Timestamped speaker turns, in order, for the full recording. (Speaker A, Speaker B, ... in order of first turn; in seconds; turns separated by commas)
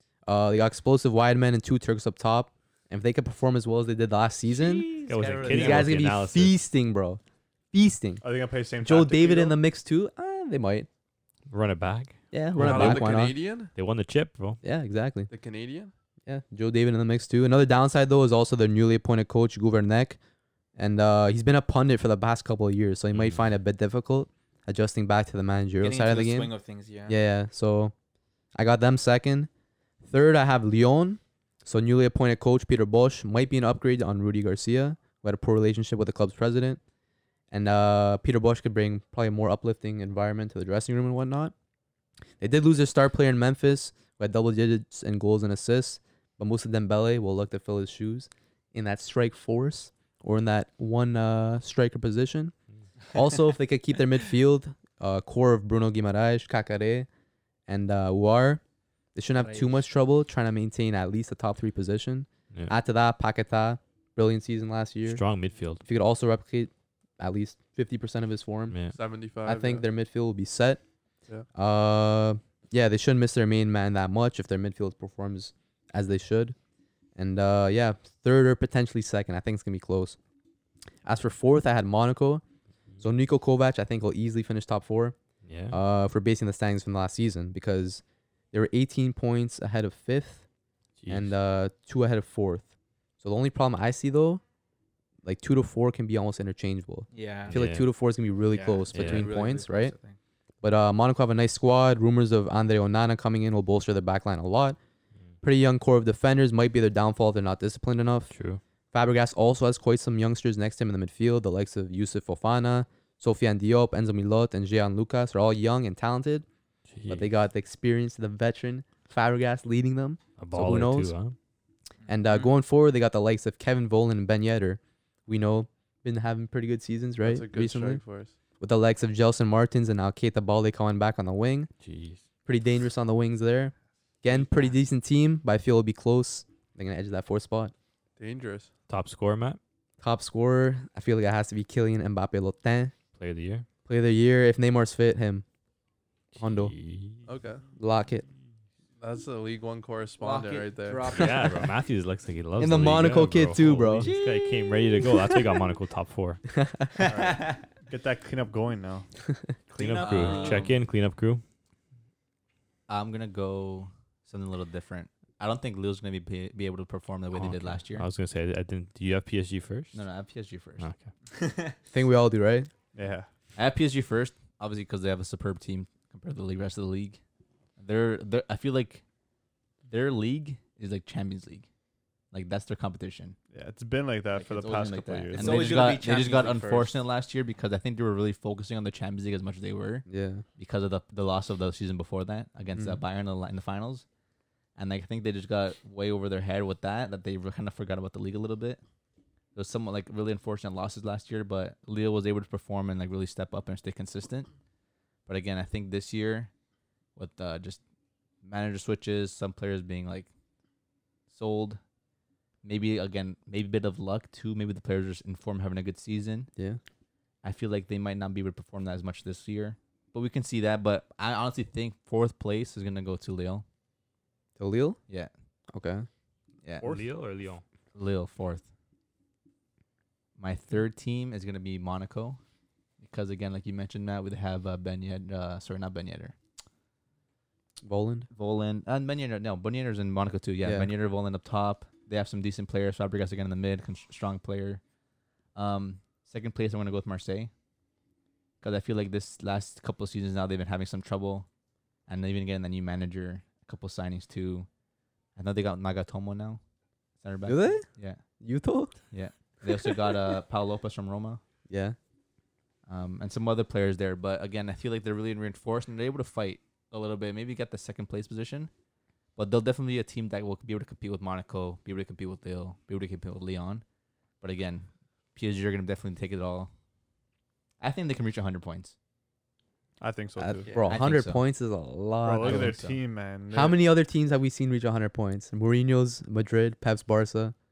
Speaker A: 0.3-4.9, Speaker B: 4.5-6.0, Speaker C: 5.1-6.6, Speaker A: 5.5-7.2, Speaker A: 7.7-8.2, Speaker D: 8.2-9.6, Speaker A: 8.8-10.9, Speaker C: 11.5-14.6, Speaker A: 12.3-13.3, Speaker E: 12.6-13.7, Speaker A: 14.6-15.3, Speaker E: 15.3-15.9, Speaker A: 16.3-20.2, Speaker A: 20.8-26.5, Speaker C: 23.1-23.4, Speaker B: 25.8-27.2, Speaker A: 27.1-27.9, Speaker A: 28.6-29.5, Speaker A: 30.0-36.8, Speaker A: 37.5-41.5, Speaker A: 42.4-52.5, Speaker A: 53.1-57.1, Speaker A: 57.7-58.6, Speaker A: 59.1-65.2, Speaker B: 59.3-59.8, Speaker C: 65.0-65.8, Speaker A: 65.8-68.8, Speaker C: 68.7-69.0, Speaker E: 68.9-69.8, Speaker A: 69.4-70.8, Speaker A: 71.5-76.6, Speaker A: 77.2-80.2, Speaker A: 81.0-82.4, Speaker A: 83.0-85.2, Speaker C: 85.5-85.8, Speaker A: 85.7-90.4, Speaker C: 91.0-91.3, Speaker A: 91.1-92.7, Speaker A: 93.2-94.4, Speaker A: 95.2-99.9, Speaker B: 97.1-97.6, Speaker C: 97.5-97.9, Speaker B: 98.5-100.2, Speaker C: 98.9-99.3, Speaker A: 100.6-104.8, Speaker A: 105.4-108.3, Speaker C: 108.3-108.6, Speaker A: 108.9-116.5, Speaker C: 116.9-117.3, Speaker A: 117.1-121.2, Speaker C: 120.4-121.4, Speaker B: 122.0-122.5, Speaker A: 122.1-128.0, Speaker E: 127.2-128.3, Speaker A: 128.6-131.7, Speaker C: 131.8-132.2, Speaker A: 132.5-137.7, Speaker E: 138.2-138.7, Speaker C: 138.9-139.6, Speaker A: 140.0-142.9, Speaker C: 143.1-143.7, Speaker A: 143.9-145.4, Speaker C: 146.3-147.3, Speaker A: 146.4-146.7, Speaker E: 147.3-147.6, Speaker A: 147.8-148.2, Speaker E: 149.0-151.2, Speaker B: 150.2-151.7, Speaker C: 151.1-156.4, Speaker A: 152.6-154.1, Speaker F: 153.6-155.1, Speaker A: 156.6-156.9, Speaker F: 157.0-157.5, Speaker D: 157.0-159.1, Speaker B: 159.7-160.7, Speaker F: 159.8-160.8, Speaker C: 159.8-161.4, Speaker F: 162.9-168.1, Speaker C: 167.3-170.1, Speaker F: 169.9-170.8, Speaker C: 170.8-171.1, Speaker B: 171.3-171.8, Speaker A: 171.9-172.7, Speaker D: 172.9-173.3, Speaker F: 173.6-177.2, Speaker F: 177.8-179.0, Speaker F: 179.9-181.7, Speaker F: 182.3-183.4, Speaker D: 183.5-185.9, Speaker F: 184.3-194.1, Speaker B: 185.3-187.0, Speaker A: 190.1-190.4, Speaker A: 192.8-193.0, Speaker F: 194.8-198.8, Speaker F: 199.5-204.5, Speaker F: 205.3-206.5, Speaker F: 207.2-207.8, Speaker F: 208.4-210.3, Speaker F: 211.3-211.8, Speaker F: 212.6-216.5, Speaker F: 217.4-223.7, Speaker A: 224.6-225.0, Speaker A: 225.7-226.1, Speaker C: 226.8-227.6, Speaker D: 226.8-227.1, Speaker F: 227.9-228.7, Speaker F: 230.4-232.4, Speaker F: 233.0-236.3, Speaker A: 237.8-238.3, Speaker F: 238.3-244.8, Speaker A: 240.6-240.9, Speaker F: 245.6-247.5, Speaker F: 248.6-251.5, Speaker F: 252.1-254.7, Speaker F: 255.4-256.6, Speaker F: 257.2-258.2, Speaker A: 257.5-257.9, Speaker A: 258.4-259.0, Speaker F: 259.1-261.4, Speaker A: 261.7-262.0, Speaker F: 262.9-268.7, Speaker F: 269.4-273.8, Speaker F: 274.4-276.7, Speaker F: 277.8-278.9, Speaker D: 280.0-280.8, Speaker A: 280.4-282.8, Speaker B: 280.7-280.9, Speaker F: 280.9-281.4, Speaker D: 282.2-283.8, Speaker F: 282.4-283.0, Speaker A: 283.5-287.6